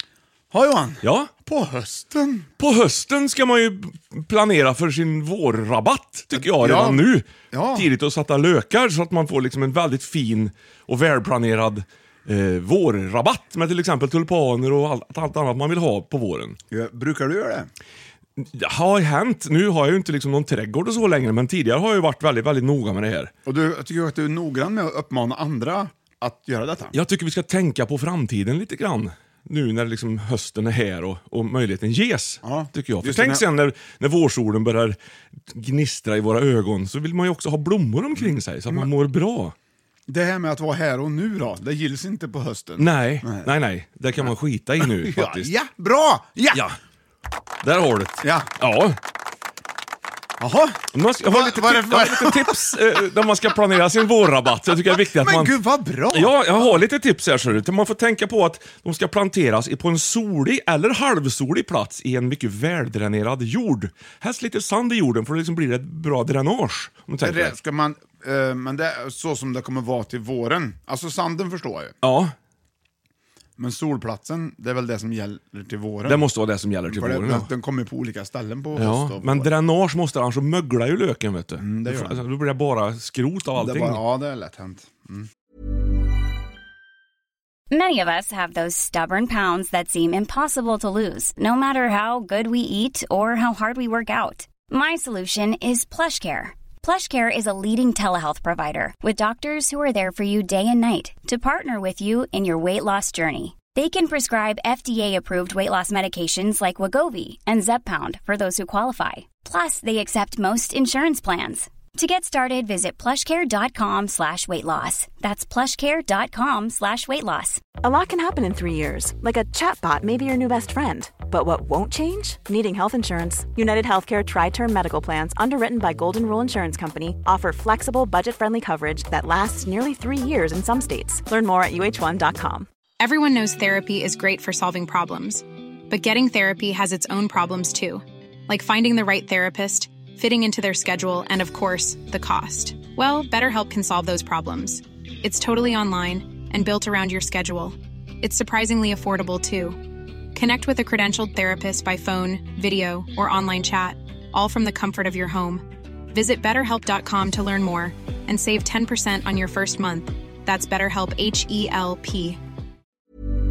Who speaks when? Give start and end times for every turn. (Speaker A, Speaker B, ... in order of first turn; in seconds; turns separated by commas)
Speaker A: 0.5-2.5, Speaker B: 1.0-1.3, Speaker B: 2.6-16.6, Speaker A: 6.3-7.9, Speaker A: 16.7-17.7, Speaker B: 18.4-23.3, Speaker A: 23.4-26.9, Speaker B: 26.9-35.0, Speaker A: 32.4-33.4, Speaker B: 35.5-39.5, Speaker A: 40.1-43.5, Speaker B: 42.8-45.5, Speaker A: 44.8-46.6, Speaker B: 46.5-46.8, Speaker B: 47.6-49.0, Speaker A: 48.2-48.5, Speaker A: 50.4-53.2, Speaker B: 50.9-55.5, Speaker A: 54.9-56.8, Speaker B: 56.1-67.5, Speaker A: 67.2-71.9, Speaker B: 72.0-72.3, Speaker A: 73.6-76.2, Speaker B: 76.0-77.5, Speaker A: 76.9-79.5, Speaker B: 78.8-84.0, Speaker A: 81.6-82.2, Speaker A: 83.5-85.3, Speaker C: 87.7-117.6, Speaker D: 117.8-132.7, Speaker E: 133.0-149.8, Speaker E: 150.3-162.4